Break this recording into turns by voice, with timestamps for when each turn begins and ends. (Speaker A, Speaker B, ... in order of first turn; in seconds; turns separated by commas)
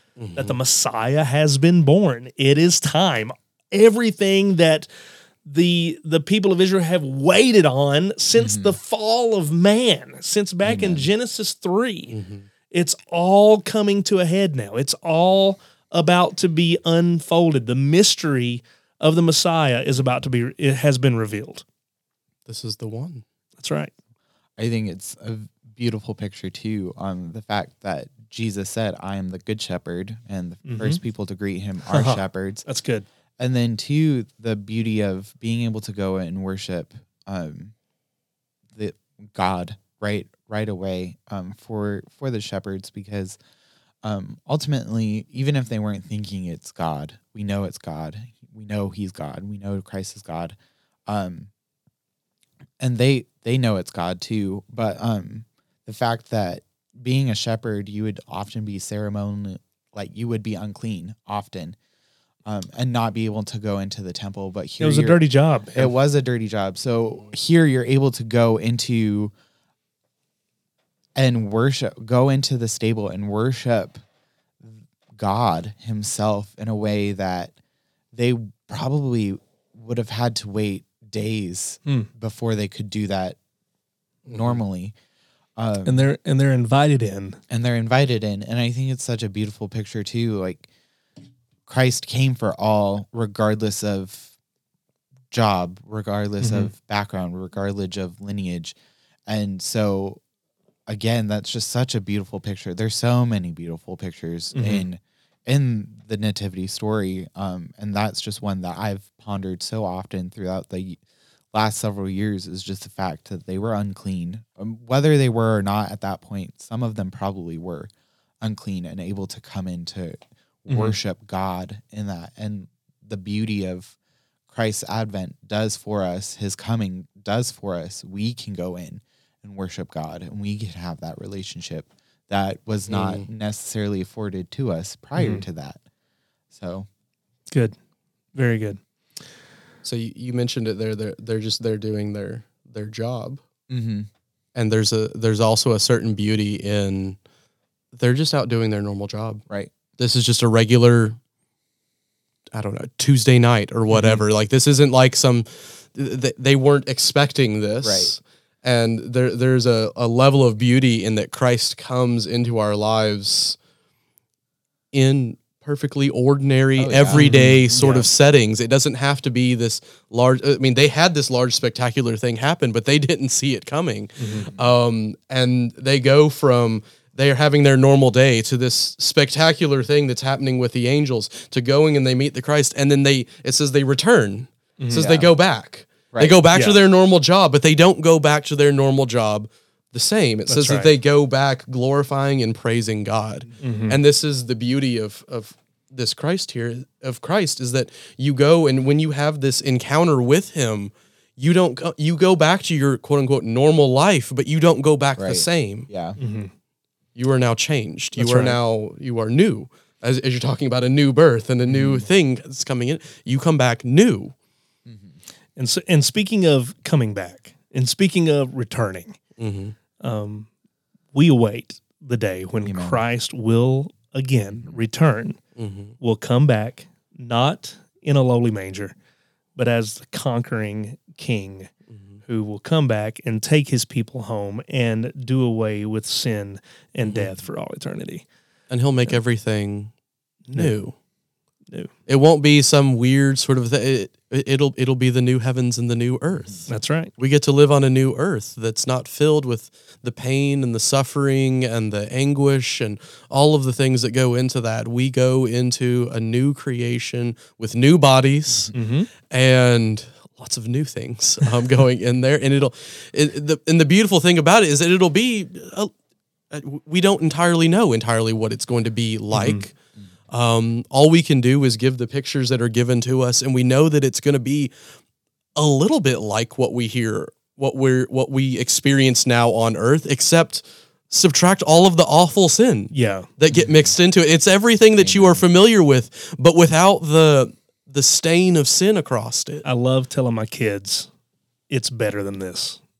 Speaker A: 0.2-0.6, Speaker B: 0.4-4.9, Speaker B: 5.4-12.1, Speaker C: 8.4-8.8, Speaker C: 10.6-11.1, Speaker A: 12.1-12.4, Speaker B: 12.7-21.6, Speaker A: 22.4-23.2, Speaker B: 23.6-23.9, Speaker C: 24.6-32.6, Speaker B: 30.6-31.0, Speaker B: 31.9-33.1, Speaker C: 33.4-37.7, Speaker C: 38.7-43.4, Speaker C: 44.0-50.6, Speaker C: 51.1-51.5, Speaker C: 52.8-61.8, Speaker C: 62.4-69.3, Speaker B: 64.8-65.9, Speaker C: 71.2-74.0, Speaker C: 74.6-77.5, Speaker C: 78.1-83.4, Speaker A: 84.3-84.6, Speaker C: 84.3-84.9, Speaker C: 85.6-86.1, Speaker B: 85.9-87.4, Speaker C: 87.5-90.7, Speaker C: 91.7-94.3, Speaker C: 95.3-98.8, Speaker B: 96.4-96.7, Speaker C: 99.3-100.2, Speaker C: 100.9-111.0, Speaker B: 104.5-104.9, Speaker C: 111.5-117.9, Speaker C: 118.4-123.9, Speaker B: 120.7-121.0, Speaker C: 124.5-135.8, Speaker A: 132.9-133.2, Speaker B: 135.1-135.4, Speaker C: 136.5-136.9, Speaker B: 138.3-138.8, Speaker A: 139.8-143.4, Speaker C: 143.7-144.1, Speaker A: 144.6-147.2, Speaker A: 147.9-149.4, Speaker A: 150.0-151.2, Speaker A: 152.5-163.6, Speaker C: 153.9-154.2, Speaker C: 157.8-158.1, Speaker A: 164.9-205.9, Speaker C: 166.8-168.1, Speaker B: 167.1-168.1, Speaker B: 174.2-174.5, Speaker B: 184.8-185.1, Speaker C: 184.9-185.3, Speaker C: 186.1-186.4, Speaker B: 190.5-190.9, Speaker B: 193.6-194.0, Speaker C: 205.2-206.2, Speaker B: 206.2-206.5, Speaker A: 207.2-214.3, Speaker B: 208.2-208.6, Speaker C: 211.7-212.1, Speaker C: 214.9-215.2, Speaker B: 215.6-219.2, Speaker A: 219.4-219.7, Speaker B: 220.0-220.5, Speaker B: 221.1-225.4, Speaker C: 222.6-223.0, Speaker A: 225.6-225.9, Speaker B: 226.0-228.9, Speaker B: 229.6-231.7, Speaker B: 232.3-238.2, Speaker A: 237.1-237.3, Speaker A: 238.7-239.9, Speaker B: 240.5-240.7, Speaker A: 240.5-240.9, Speaker A: 242.1-265.9, Speaker B: 246.7-247.1, Speaker B: 258.7-259.1, Speaker A: 266.5-269.7, Speaker B: 269.3-269.7, Speaker A: 270.3-274.7, Speaker A: 275.6-289.6, Speaker B: 282.9-283.3, Speaker C: 283.5-283.9, Speaker C: 285.0-285.4, Speaker B: 289.6-291.1, Speaker B: 291.7-292.8